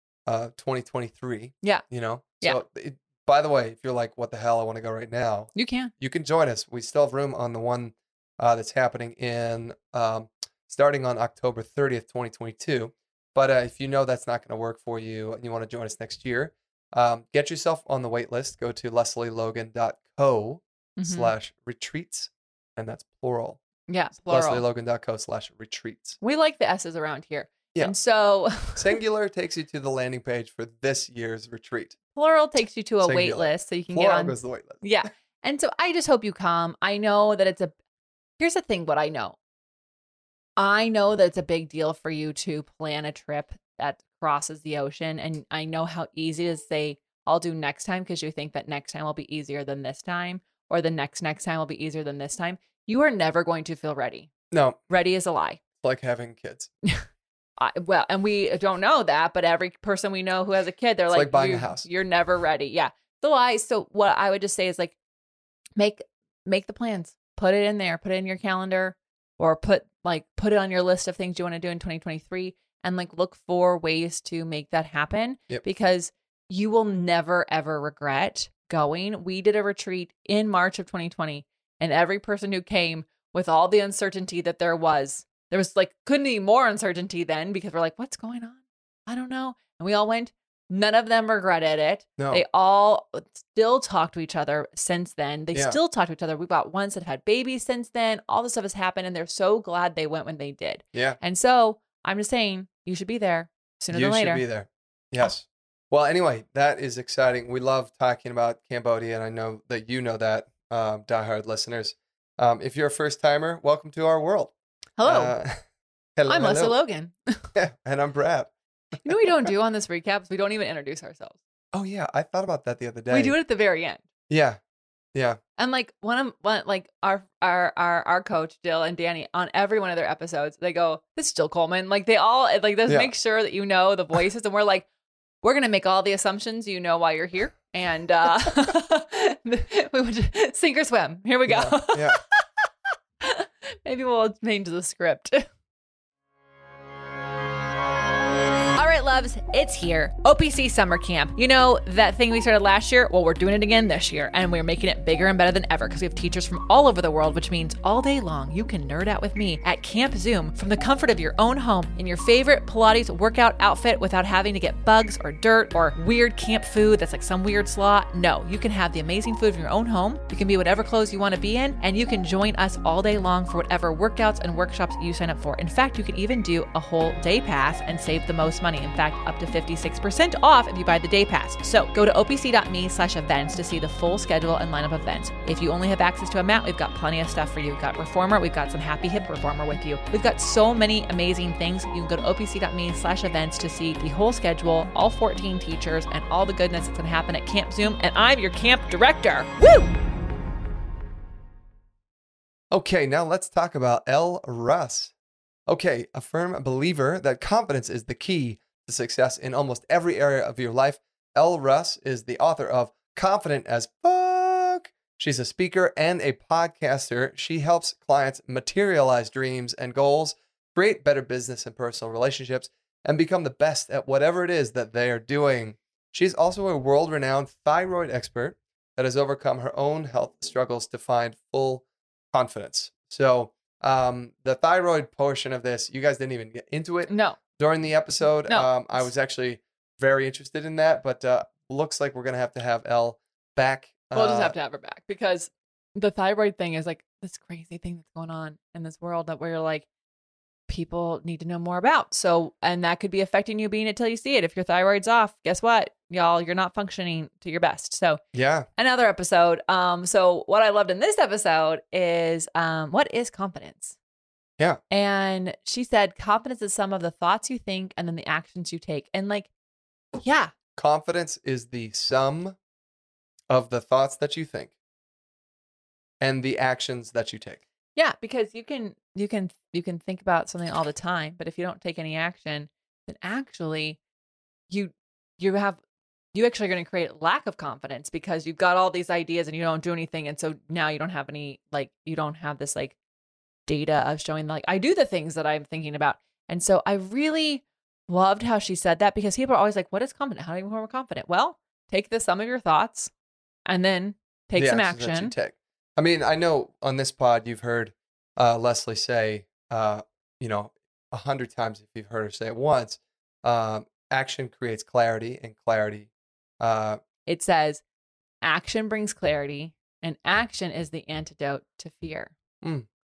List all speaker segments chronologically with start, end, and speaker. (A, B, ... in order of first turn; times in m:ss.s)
0:00.3-0:23.6 A
0:05.6-0:05.9 B
0:21.0-0:21.3 B
0:23.9-0:24.6 B
0:24.3-0:26.2 A
0:26.2-0:29.0 B
0:28.7-0:32.0 A
0:32.2-0:37.7 B
0:33.0-0:34.8 A
0:38.4-0:39.4 B
0:40.6-0:54.3 B
0:54.5-0:54.8 A
0:54.9-0:55.6 B
0:55.8-0:56.7 A
0:57.6-1:05.0 B
1:01.1-1:01.9 A
1:05.8-1:44.4 B
1:32.2-1:32.4 A
1:35.5-1:35.8 A
1:43.9-1:54.5 A
1:55.0-1:55.4 B
1:55.0-1:55.6 A
1:56.2-1:56.8 A
1:56.3-1:57.5 B
1:57.5-1:58.5 A
1:59.0-2:01.4 B
1:59.1-1:59.5 A
2:01.7-2:03.4 A
2:03.1-2:04.0 B
2:04.3-2:04.6 A
2:05.1-2:05.4 A
2:05.6-2:14.9 B
2:12.9-2:13.1 A
2:15.4-2:22.4 B
2:21.5-2:22.2 A
2:23.2-2:25.5 B
2:28.8-3:19.9 B
3:22.7-3:25.1 A
3:25.7-4:04.6 A
3:57.1-3:57.4 B
3:58.3-3:59.1 B
4:04.1-4:09.9 B
4:10.7-4:18.2 B
4:18.3-4:18.7 A
4:18.8-4:24.0 B
4:24.9-4:29.5 B
4:30.2-4:30.5 B
4:30.8-4:32.6 A
4:33.5-4:34.7 A
4:36.2-4:37.6 A
4:38.0-4:44.0 B
4:44.7-4:45.8 B
4:46.3-4:53.0 B
4:53.7-5:03.1 B
5:03.7-5:05.3 B
5:04.6-5:17.0 A
5:17.3-5:17.8 B
5:18.4-5:22.3 B
5:22.6-5:22.9 A